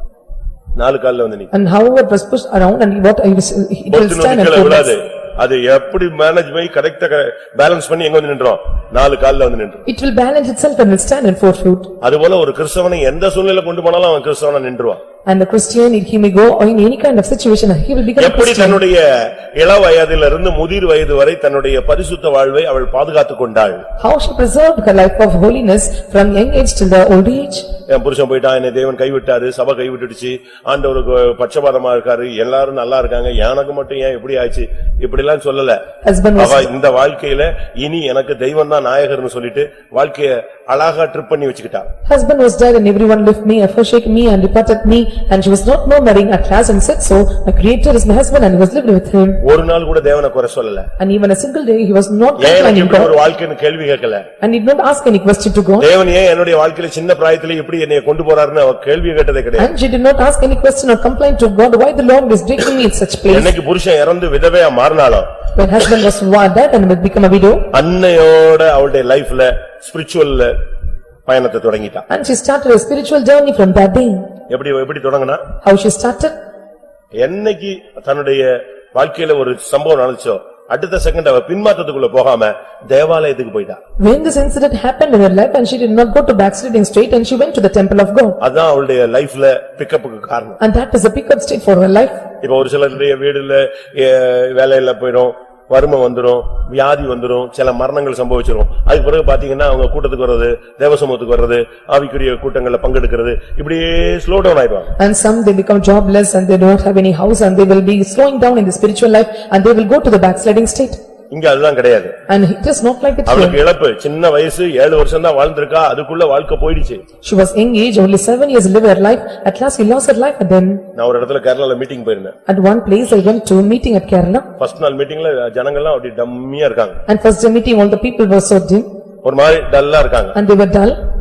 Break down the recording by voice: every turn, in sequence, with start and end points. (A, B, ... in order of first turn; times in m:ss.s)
0:00.8-0:01.5 A
0:01.5-0:04.9 B
0:03.9-0:09.8 A
0:09.9-0:11.9 B
0:12.0-0:15.0 A
0:15.2-0:18.8 B
0:18.2-0:23.8 A
0:24.0-0:27.7 B
0:27.9-0:35.8 A
0:36.0-0:36.7 B
0:36.4-0:41.9 A
0:42.1-0:49.4 B
0:49.4-0:50.9 A
0:51.0-0:53.2 B
0:52.4-0:54.2 A
0:54.4-0:55.9 B
0:55.8-0:59.7 A
0:59.6-1:03.5 B
1:03.3-1:05.3 A
1:05.6-1:07.7 B
1:07.7-1:10.6 A
1:11.2-1:12.0 A
1:12.1-1:14.2 B
1:14.5-1:15.4 A
1:15.6-1:16.3 B
1:17.2-1:23.8 A
1:24.0-1:28.4 B
1:28.4-1:30.6 A
1:30.6-1:32.2 B
1:32.4-1:44.9 A
1:45.0-1:51.0 B
1:51.3-1:52.2 A
1:52.3-1:53.6 B
1:53.2-1:57.0 A
1:57.2-2:00.8 B
2:00.9-2:02.4 A
2:02.5-2:04.5 B
2:04.6-2:07.0 A
2:07.1-2:08.9 B
2:09.2-2:10.4 A
2:10.3-2:11.0 B